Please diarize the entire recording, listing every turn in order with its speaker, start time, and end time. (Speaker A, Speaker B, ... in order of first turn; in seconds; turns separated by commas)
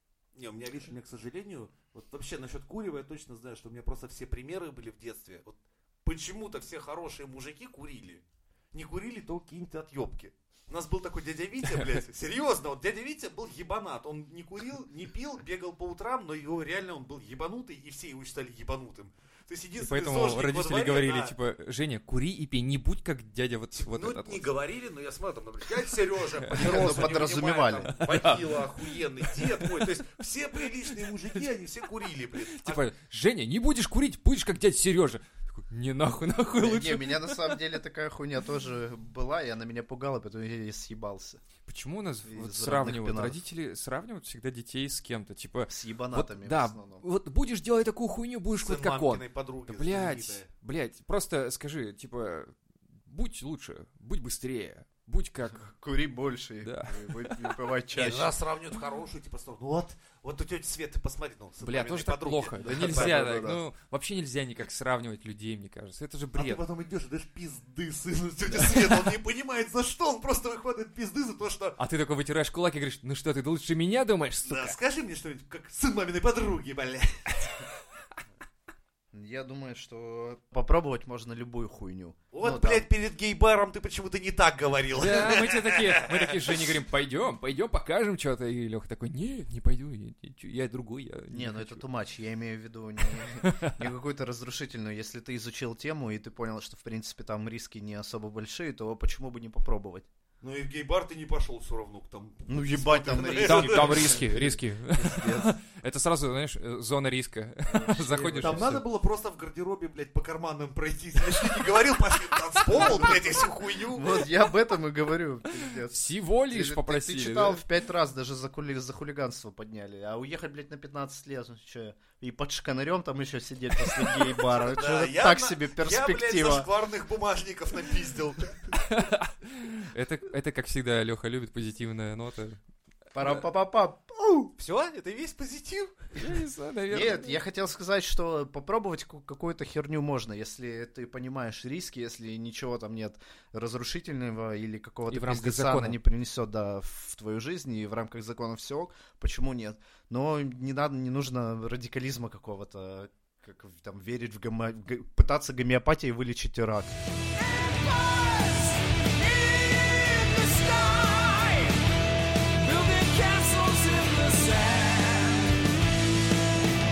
Speaker A: 0.3-21.3, Speaker B: 19.8-24.5, Speaker A: 23.7-32.9, Speaker B: 26.4-27.2, Speaker C: 26.5-28.0, Speaker B: 27.9-30.0, Speaker B: 30.9-31.4, Speaker B: 32.5-37.6, Speaker C: 36.6-41.4, Speaker B: 41.6-55.7, Speaker C: 42.2-43.4, Speaker C: 45.7-47.0, Speaker A: 48.6-50.5, Speaker C: 55.5-58.3, Speaker B: 56.6-57.5, Speaker A: 57.9-63.1, Speaker B: 61.6-66.6, Speaker C: 62.6-63.6, Speaker A: 66.3-71.8, Speaker B: 68.5-69.1, Speaker B: 71.8-74.8, Speaker A: 74.4-77.5, Speaker C: 79.1-82.8, Speaker A: 82.3-86.6, Speaker B: 84.9-91.8, Speaker C: 91.3-100.1, Speaker B: 93.3-93.9, Speaker A: 100.4-104.2, Speaker C: 102.5-105.5, Speaker B: 103.2-108.8, Speaker C: 107.7-108.8, Speaker A: 108.3-114.2, Speaker C: 112.7-113.2, Speaker B: 112.7-113.3, Speaker C: 113.9-126.7, Speaker B: 115.7-117.6, Speaker A: 124.6-128.8, Speaker B: 128.8-132.6, Speaker C: 133.1-134.5, Speaker A: 134.6-136.1, Speaker B: 136.1-137.4, Speaker C: 136.9-156.9, Speaker B: 145.1-146.0, Speaker B: 157.4-161.8, Speaker B: 162.6-165.7